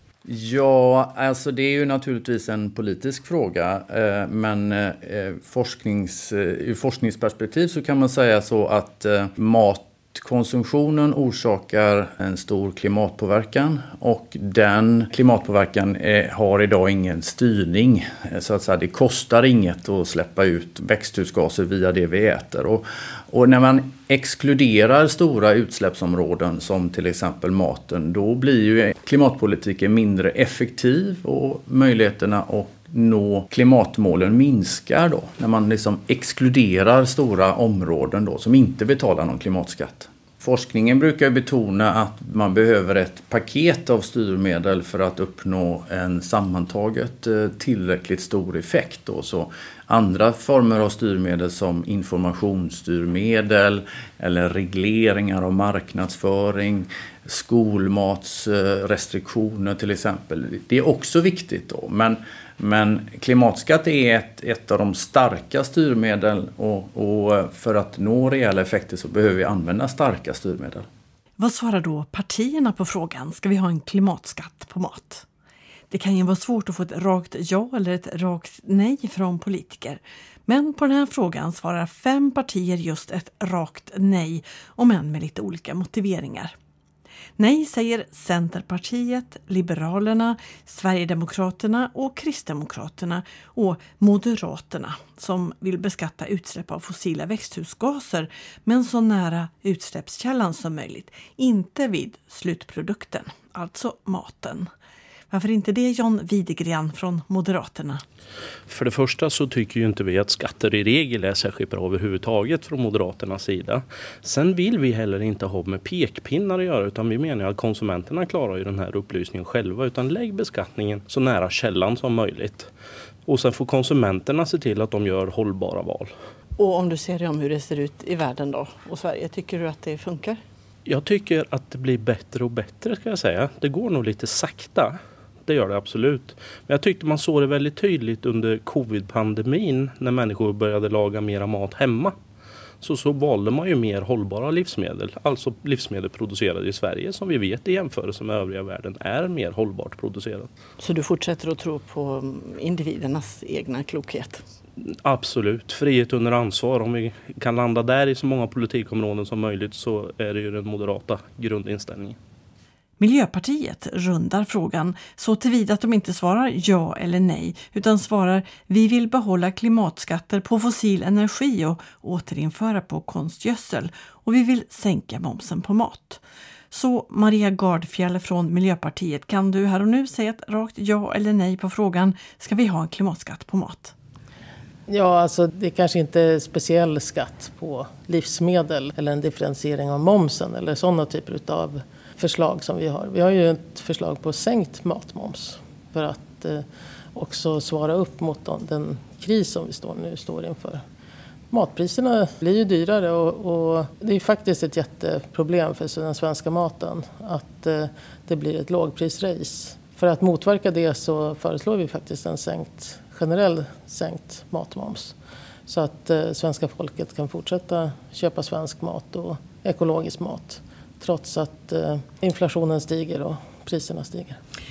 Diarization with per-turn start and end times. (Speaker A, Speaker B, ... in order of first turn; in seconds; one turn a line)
Speaker A: 0.2-70.9
Speaker B: 71.4-75.3
Speaker B: 75.9-86.5
Speaker B: 87.4-104.7
Speaker B: 105.3-108.0
Speaker C: 108.7-122.7
Speaker C: 123.3-126.1
Speaker B: 126.6-130.4
Speaker C: 130.9-142.2
Speaker C: 142.8-150.5
Speaker B: 150.8-154.4
Speaker C: 154.8-162.2
Speaker B: 163.0-183.9
Speaker D: 184.9-200.8
Speaker D: 201.5-215.2
Speaker D: 215.7-224.4